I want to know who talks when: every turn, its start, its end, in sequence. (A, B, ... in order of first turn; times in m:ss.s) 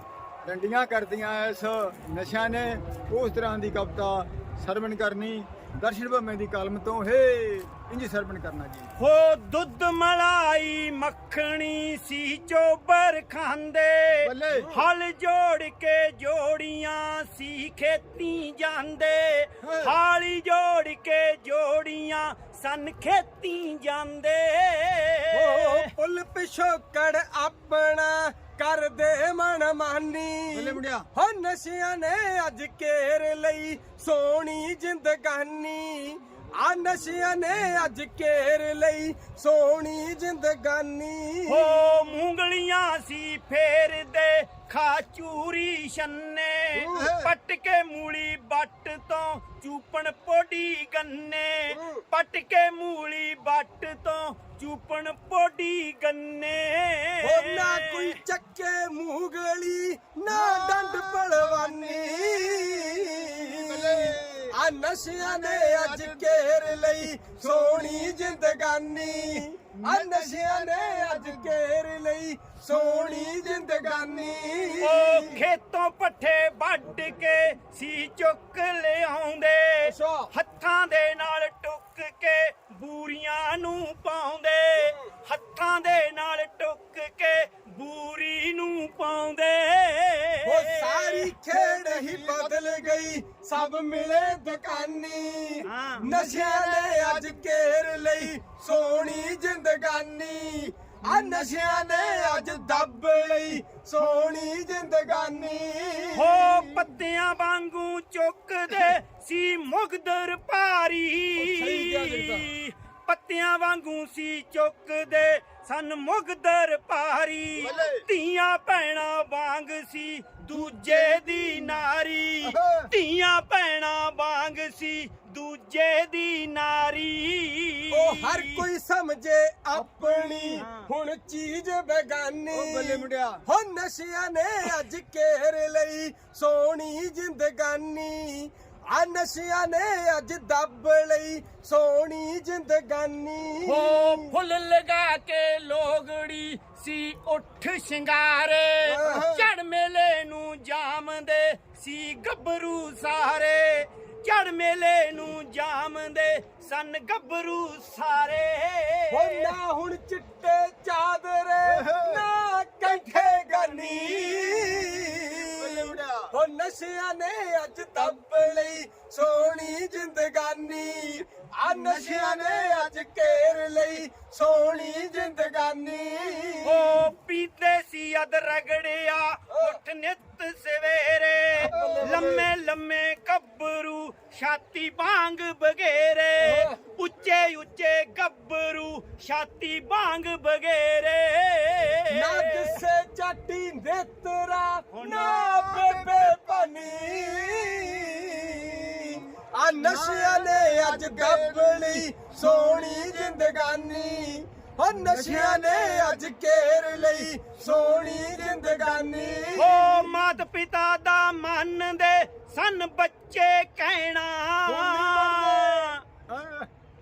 0:00.4-0:08.9 A
0:09.0-0:25.9 B
0:14.2-0:14.7 A
0:14.5-0:14.8 C
0:19.6-0:20.0 A
0:25.3-0:41.8 C
0:30.5-0:31.1 A
0:41.5-0:58.2 B
0:46.8-0:47.1 C
0:46.9-0:47.3 A
0:51.7-0:52.0 C
0:57.2-1:15.4 C
1:00.3-1:02.6 A
1:03.5-1:04.6 A
1:05.2-1:06.3 A
1:07.5-1:07.8 A
1:09.8-1:11.6 A
1:12.7-1:13.1 A
1:14.8-1:31.3 B
1:19.8-1:20.3 C
1:30.4-1:46.4 C
1:31.5-1:32.6 A
1:35.6-1:36.1 B
1:36.1-1:37.3 A
1:41.1-1:41.5 A
1:46.2-2:08.7 B
1:51.4-1:52.5 C
1:57.6-1:58.0 A
2:00.5-2:01.8 C
2:02.4-2:02.9 A
2:07.9-2:24.3 C
2:09.8-2:10.7 A
2:10.6-2:10.9 B
2:12.5-2:13.4 A
2:23.7-2:39.6 B
2:28.8-2:29.3 C
2:29.1-2:29.5 A
2:39.1-2:57.0 C
2:41.6-2:42.3 A
2:42.8-2:44.9 B
2:45.5-2:46.3 A
2:51.7-2:52.9 A
2:56.6-3:12.7 B
2:59.5-2:59.8 C
3:01.6-3:02.4 A
3:01.6-3:02.4 C
3:06.4-3:06.8 C
3:12.1-3:29.9 C
3:14.9-3:15.7 B
3:15.2-3:19.2 A
3:19.8-3:22.0 A
3:25.0-3:26.2 A
3:29.6-3:36.0 B
3:34.7-3:35.9 C
3:36.3-3:36.7 A